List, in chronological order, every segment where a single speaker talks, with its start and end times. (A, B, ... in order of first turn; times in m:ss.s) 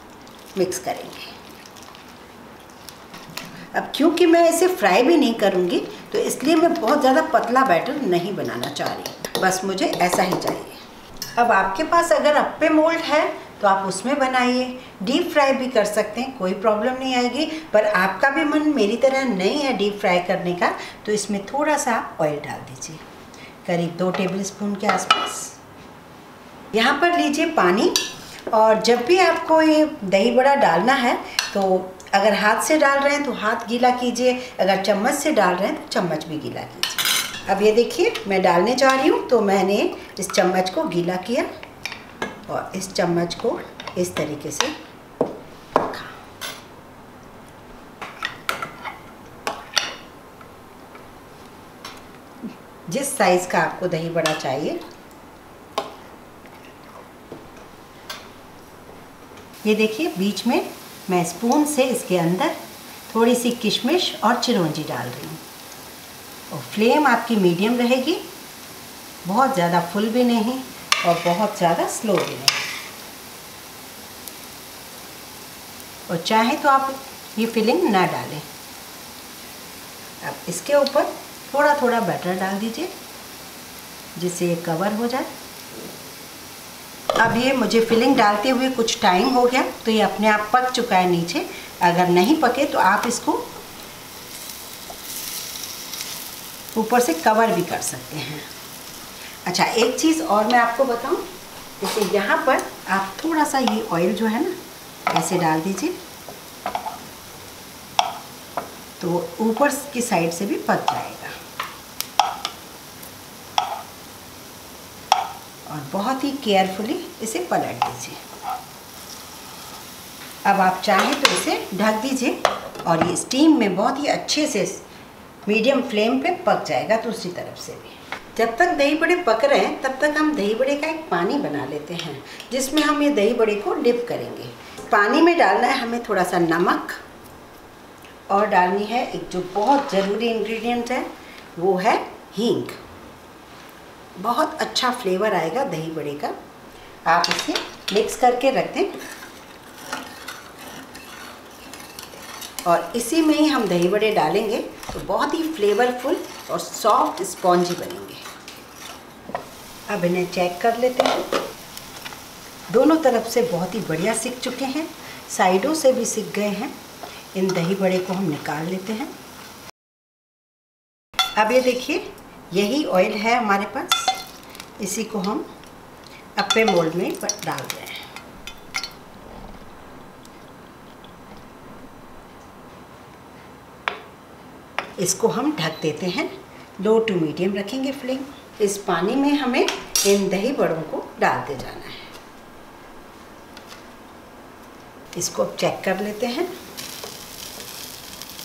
0:00.6-0:01.4 A
0:03.7-0:10.8 A
0:11.4-0:23.0 A
0:23.6-0:25.6 A
0:26.7-0:28.0 A
0:28.5-0:41.5 A
0:42.5-0:44.8 A
0:45.7-0:46.1 A
0:52.9-0:54.8 A
0:59.6-1:02.5 A
1:03.1-1:05.4 A
1:06.5-1:08.2 A
1:09.2-1:12.7 A
1:16.1-1:18.4 A
1:20.2-1:22.9 A
1:24.2-1:25.3 A
1:27.1-1:33.4 A
1:36.7-1:38.5 A
1:39.4-1:41.2 A
1:41.8-1:44.5 A
1:45.1-1:46.0 A
1:49.0-1:51.3 A
1:55.6-1:58.2 A
2:00.4-2:04.8 A
2:05.4-2:17.0 A
2:18.3-2:22.8 A
2:24.2-2:26.3 A
2:27.0-2:28.9 A
2:32.6-2:38.2 A
2:39.9-2:41.4 A
2:42.7-2:46.7 A
2:47.3-2:49.1 A
2:51.4-2:54.2 A
2:54.8-2:55.4 A
2:56.4-2:58.1 A
3:05.0-3:12.1 A
3:15.1-3:16.5 A